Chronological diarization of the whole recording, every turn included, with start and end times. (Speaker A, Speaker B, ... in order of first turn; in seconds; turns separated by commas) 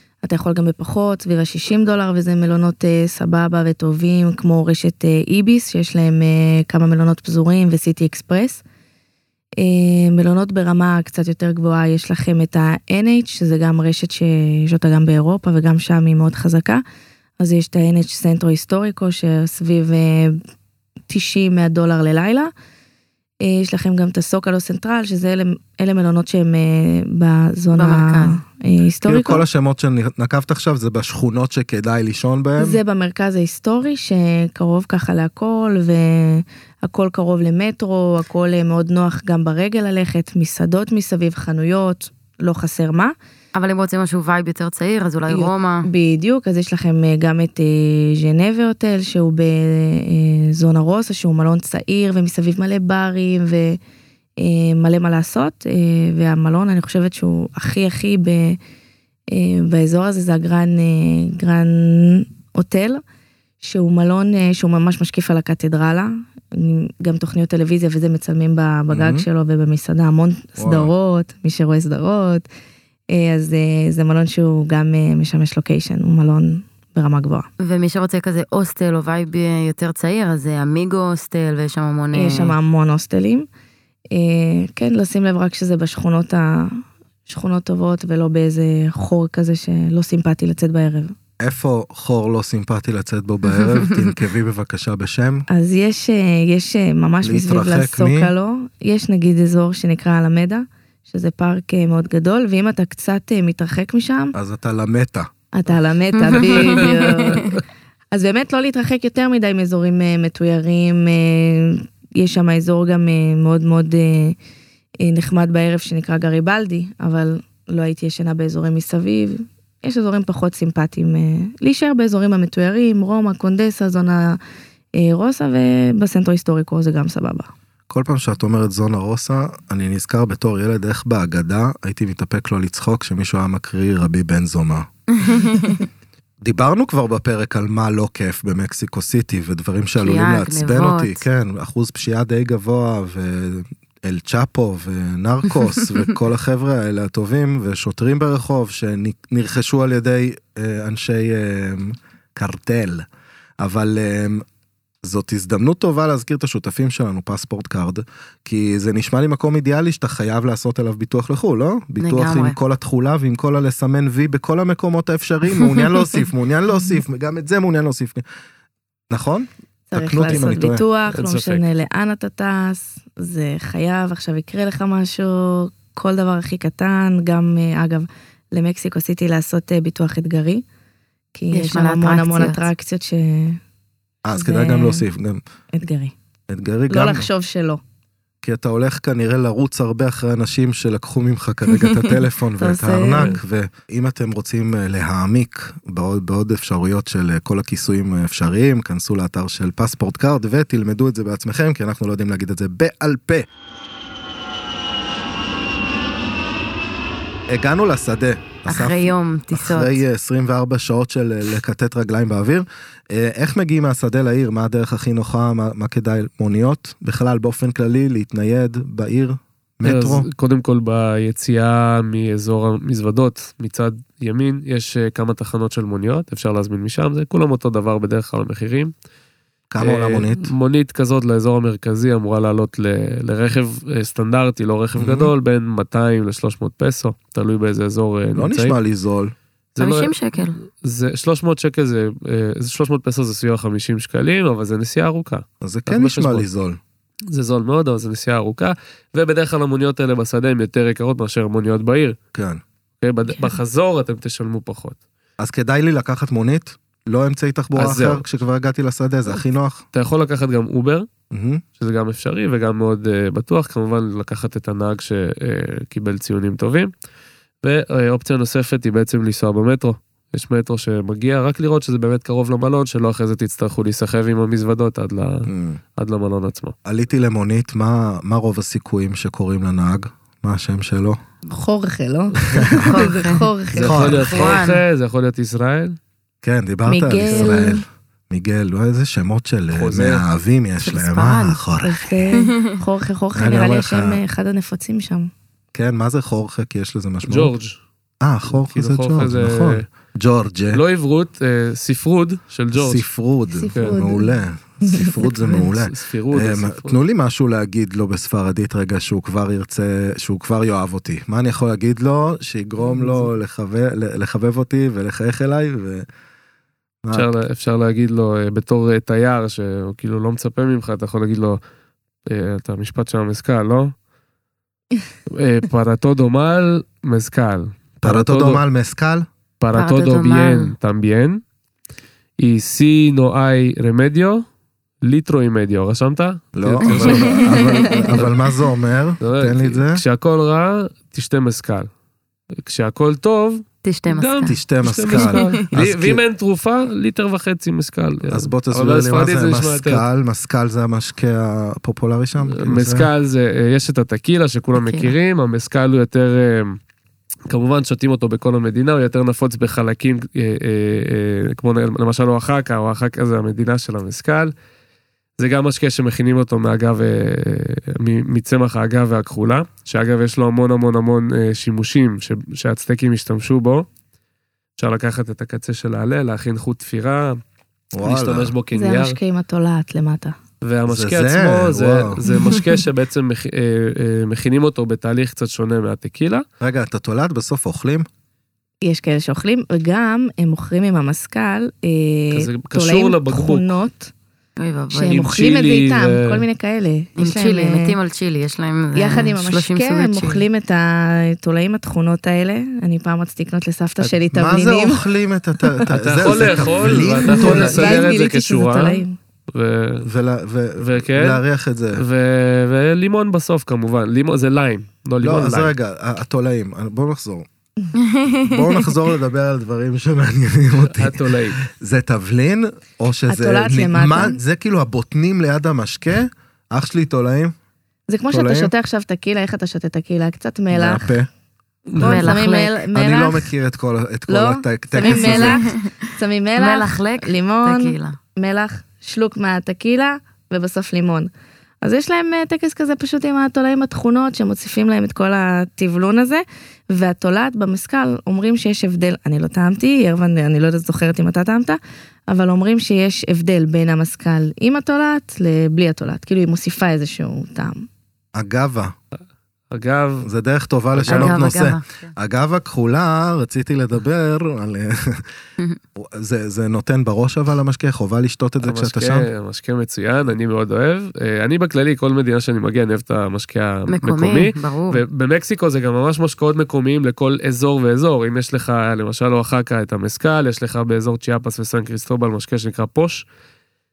Speaker A: 0.2-8.6, Speaker A: 9.6-16.8, Speaker A: 17.4-20.4, Speaker A: 21.1-22.5, Speaker A: 23.4-29.4, Speaker B: 27.7-28.4, Speaker C: 29.0-32.8, Speaker A: 32.6-43.1, Speaker B: 43.5-45.9, Speaker A: 45.3-53.8, Speaker A: 54.4-58.6, Speaker A: 59.3-63.0, Speaker A: 63.6-72.5, Speaker C: 68.9-69.3, Speaker C: 70.6-70.9, Speaker A: 73.1-77.5, Speaker B: 77.6-82.6, Speaker A: 82.1-83.5, Speaker A: 84.1-91.1, Speaker C: 91.4-95.5, Speaker B: 93.7-94.0, Speaker A: 95.5-104.3, Speaker C: 97.2-98.3, Speaker C: 104.3-105.3, Speaker A: 105.5-114.3, Speaker B: 106.3-107.5, Speaker D: 106.5-107.0, Speaker A: 115.0-124.4, Speaker A: 124.9-127.5, Speaker C: 127.9-134.9, Speaker B: 135.2-135.8, Speaker C: 136.4-153.1, Speaker B: 140.0-141.2, Speaker C: 153.6-154.4, Speaker C: 155.0-168.2, Speaker B: 162.0-162.6, Speaker C: 169.1-170.8, Speaker A: 169.9-180.6, Speaker D: 171.1-171.7, Speaker A: 181.3-183.6, Speaker B: 181.5-182.7, Speaker C: 184.2-185.4, Speaker A: 184.3-185.0, Speaker A: 185.7-186.1, Speaker C: 186.5-187.3, Speaker A: 186.9-187.8, Speaker C: 188.4-203.4, Speaker A: 192.6-193.4, Speaker C: 207.5-220.3, Speaker B: 208.7-210.0, Speaker D: 219.8-228.9, Speaker C: 229.7-230.5, Speaker D: 229.8-238.7, Speaker C: 234.9-235.3, Speaker C: 238.3-239.3, Speaker D: 239.7-240.1, Speaker B: 239.8-240.6, Speaker D: 240.8-246.4, Speaker C: 245.6-246.8, Speaker D: 247.3-252.2, Speaker C: 252.3-252.6, Speaker D: 253.0-255.0, Speaker C: 255.4-259.8, Speaker D: 257.8-258.2, Speaker D: 259.9-261.1, Speaker C: 261.3-261.6, Speaker D: 261.8-266.9, Speaker D: 267.6-276.7, Speaker C: 275.4-275.8, Speaker C: 276.8-281.2, Speaker A: 281.5-284.1, Speaker C: 282.5-282.8, Speaker B: 282.7-283.5, Speaker D: 283.7-286.0, Speaker C: 283.8-284.6, Speaker B: 284.1-284.8, Speaker C: 286.4-292.0, Speaker A: 286.9-287.8, Speaker D: 287.3-287.5, Speaker D: 289.7-290.2, Speaker B: 290.8-291.6, Speaker A: 291.8-295.3, Speaker B: 292.3-292.8, Speaker C: 293.3-294.2, Speaker C: 295.7-297.5, Speaker D: 297.2-297.8, Speaker C: 298.2-300.8, Speaker D: 298.5-299.8, Speaker D: 300.7-303.0, Speaker C: 302.7-316.1, Speaker A: 303.5-305.3, Speaker D: 303.7-304.0, Speaker D: 305.3-307.0, Speaker D: 312.8-313.3, Speaker C: 317.0-317.3, Speaker D: 317.1-321.6, Speaker D: 322.2-323.9, Speaker D: 325.3-328.6, Speaker C: 328.0-329.2, Speaker D: 329.6-331.4, Speaker B: 329.7-330.7, Speaker D: 332.4-334.4, Speaker D: 335.0-338.3, Speaker C: 336.6-340.0, Speaker B: 336.8-338.3, Speaker D: 339.2-341.9, Speaker D: 342.6-350.1, Speaker B: 343.8-344.6, Speaker C: 344.4-346.2, Speaker B: 345.1-345.6, Speaker C: 348.3-353.1, Speaker D: 352.5-356.8, Speaker B: 354.7-355.1, Speaker D: 357.5-364.5, Speaker D: 365.4-373.9, Speaker D: 374.8-377.4, Speaker C: 377.9-378.5, Speaker D: 378.0-379.2, Speaker A: 378.7-380.4, Speaker D: 380.6-386.4, Speaker C: 380.9-382.2, Speaker B: 382.3-382.8, Speaker C: 386.6-388.1, Speaker A: 388.8-394.1, Speaker D: 392.3-393.7, Speaker B: 394.6-395.4, Speaker A: 394.9-397.9, Speaker D: 395.1-396.4, Speaker B: 397.2-400.4, Speaker A: 398.9-405.0, Speaker C: 404.0-408.1, Speaker A: 405.6-409.1, Speaker D: 405.9-410.1, Speaker C: 410.0-412.0, Speaker D: 410.8-411.4, Speaker D: 411.9-415.7, Speaker C: 415.2-417.5, Speaker B: 417.9-418.8, Speaker C: 418.4-427.5, Speaker D: 420.8-421.6, Speaker A: 423.3-424.4, Speaker A: 428.1-431.1, Speaker C: 428.3-428.7, Speaker C: 430.7-431.3, Speaker D: 431.9-432.4, Speaker A: 432.0-433.5, Speaker B: 432.0-432.8, Speaker C: 432.9-435.6, Speaker A: 434.3-441.3, Speaker B: 435.0-435.9, Speaker B: 436.6-438.2, Speaker A: 441.8-457.9, Speaker C: 458.3-458.9, Speaker D: 459.7-460.3, Speaker C: 460.2-465.3, Speaker D: 460.9-461.4, Speaker B: 461.0-462.1, Speaker C: 465.9-469.3, Speaker D: 468.6-483.2, Speaker B: 473.9-475.0